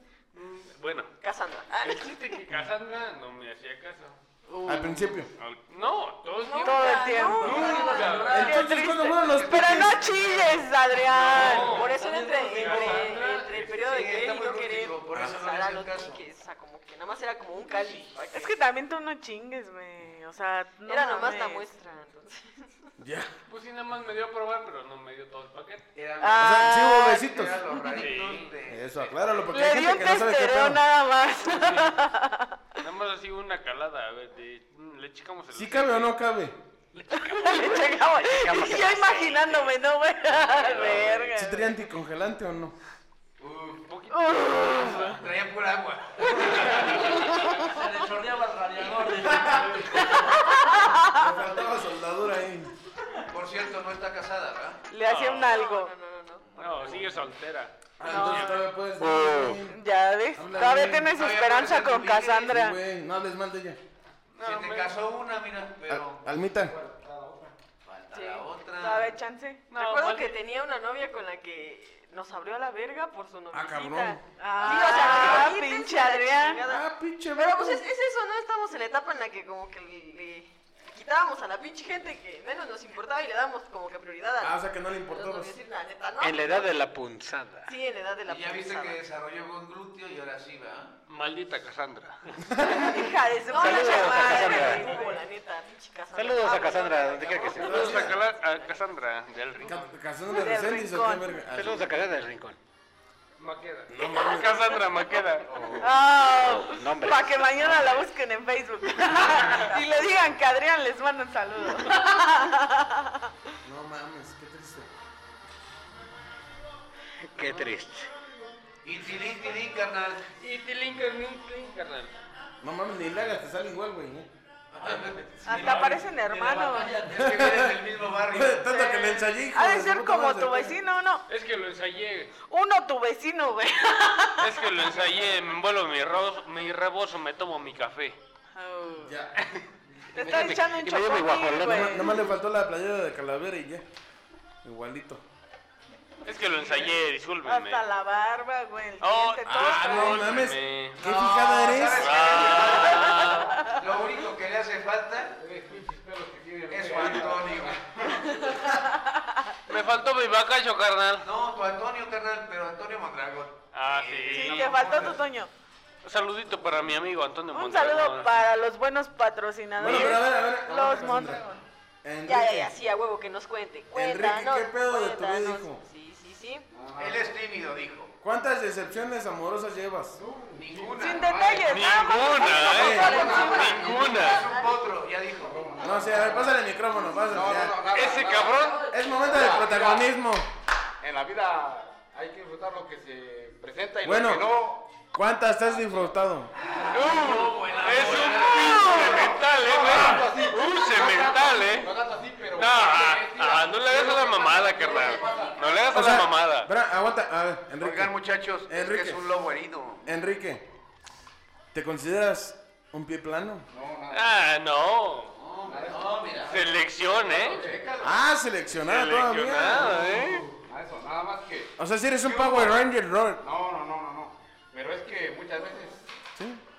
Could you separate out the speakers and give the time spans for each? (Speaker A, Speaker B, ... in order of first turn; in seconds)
Speaker A: 0.3-1.1, 1.8-4.2, 4.9-8.6, 11.2-14.2, 23.5-25.9, 27.9-28.5, 31.4-31.9, 32.8-36.1, 40.5-41.3, 43.9-45.2, 46.4-47.4, 55.0-55.6, 56.5-58.6, 64.3-65.0, 69.7-70.4, 74.6-75.0, 91.1-92.4, 97.5-99.8, 103.4-105.5, 109.4-109.7, 120.4-122.1, 125.5-126.0, 131.3-132.3, 134.4-138.2, 146.2-147.8, 149.0-151.1, 151.8-153.6, 159.7-161.3, 163.7-165.0, 166.0-168.4, 181.7-184.5, 187.9-188.9, 196.9-201.9, 202.5-206.7, 214.1-215.4, 216.4-217.6, 218.8-220.5
Speaker B: 1.2-2.4, 6.4-8.6, 11.2-18.6, 20.8-22.9, 55.4-56.5, 69.7-86.9, 87.7-89.0, 93.5-98.8, 172.2-176.7, 182.9-184.8, 188.5-189.1, 205.0-205.6
Speaker C: 4.6-5.3, 8.1-10.0, 23.0-23.3, 26.4-27.6, 28.7-30.8, 35.5-36.5, 41.3-42.7, 49.2-49.8, 51.1-52.7, 58.0-59.8, 60.3-61.1, 62.5-63.8, 65.9-66.7, 73.5-74.2, 76.6-77.8, 84.4-85.5, 92.5-92.9, 97.5-98.2, 99.6-101.8, 103.9-104.8, 113.6-114.9, 122.6-124.3, 127.1-130.8, 139.0-139.3, 141.6-143.8, 144.6-145.2, 149.4-152.2, 169.8-171.4, 172.0-172.7, 173.9-175.8, 178.2-180.2, 182.6-183.3, 185.8-187.9, 188.9-190.5, 194.0-194.6, 195.1-196.5, 205.9-209.3, 210.0-210.7, 211.7-213.7, 218.0-220.2, 221.8-223.4, 226.3-226.6
Speaker D: 6.6-11.8, 18.3-21.7, 26.2-27.2, 29.5-32.8, 37.1-41.8, 44.1-45.1, 47.2-47.5, 50.0-51.4, 54.9-55.9, 58.0-58.6, 59.5-62.8, 68.2-69.6, 74.4-76.6, 92.7-95.2, 100.3-101.4, 105.8-113.3, 125.4-127.1, 128.6-131.2, 132.4-134.9, 138.6-139.2, 140.1-142.3, 147.4-150.4, 152.6-153.8, 158.2-159.5, 164.3-165.5, 167.5-171.7, 180.9-184.1
Speaker E: 9.3-10.6, 11.1-16.2, 17.6-18.1, 25.9-29.4, 43.4-43.9, 44.6-46.9, 53.3-54.8, 56.5-57.2, 60.6-62.5, 64.4-66.2, 67.8-69.1, 88.2-91.0, 105.5-105.8, 118.8-120.2, 124.7-128.7, 146.6-146.9, 151.0-155.4, 156.7-158.2, 161.2-165.2, 177.0-178.1, 180.6-181.7, 183.3-186.0, 196.6-200.0, 207.8-210.1, 215.3-216.6, 217.3-218.2, 220.1-220.4, 222.2-222.7
Speaker F: 37.4-39.8, 59.0-59.6, 86.2-87.7, 93.6-95.0, 96.1-97.8, 101.5-102.6, 105.8-108.1, 117.2-118.1, 140.2-142.0
Speaker G: 47.5-50.1
Speaker H: 66.5-67.5, 155.3-157.8, 176.7-177.3, 180.2-181.6, 182.6-184.3, 185.3-186.6, 187.2-190.1, 191.0-194.9, 195.7-196.1, 198.1-205.6, 213.7-214.3, 215.7-218.0, 220.6-221.7, 223.4-226.0